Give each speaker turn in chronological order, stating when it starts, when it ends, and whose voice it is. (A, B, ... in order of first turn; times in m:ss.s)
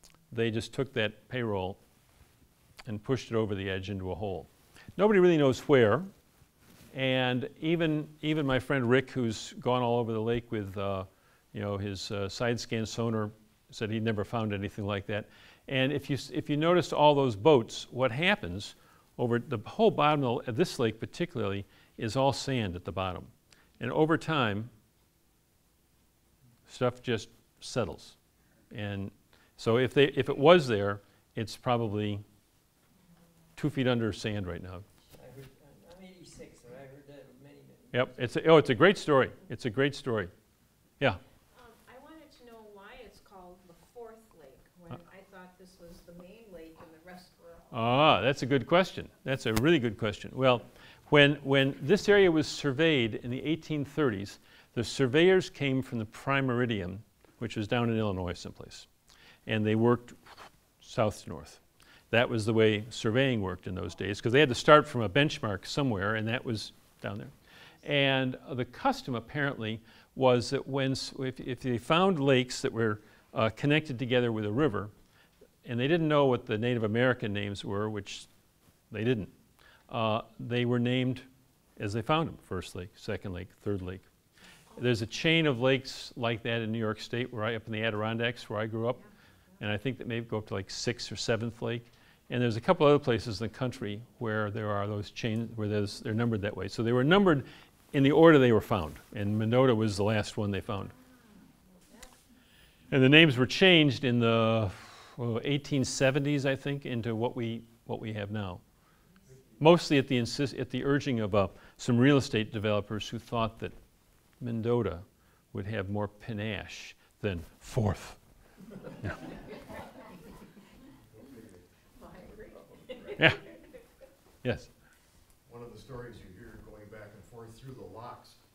0:00.3-0:01.8 A
0:02.9-0:06.1 A
0:06.9-0:24.7 A
0:26.7-0:28.2 A
0:28.7-0:32.2 A
0:33.6-0:34.8 A
0:35.1-0:38.3 B
0:37.9-0:40.3 A
0:41.5-0:47.8 C
0:47.7-0:58.9 A
0:59.5-1:14.9 A
1:15.6-1:18.3 A
1:18.9-1:19.3 A
1:19.9-1:24.1 A
1:24.8-1:29.0 A
1:29.6-1:40.9 A
1:40.9-1:42.1 C
1:42.9-1:48.6 A
1:49.6-1:53.8 A
1:54.4-1:58.2 A
2:01.1-2:01.7 D
2:02.0-2:03.8 C
2:03.2-2:03.4 A
2:04.4-2:04.7 A
2:05.5-2:08.4 D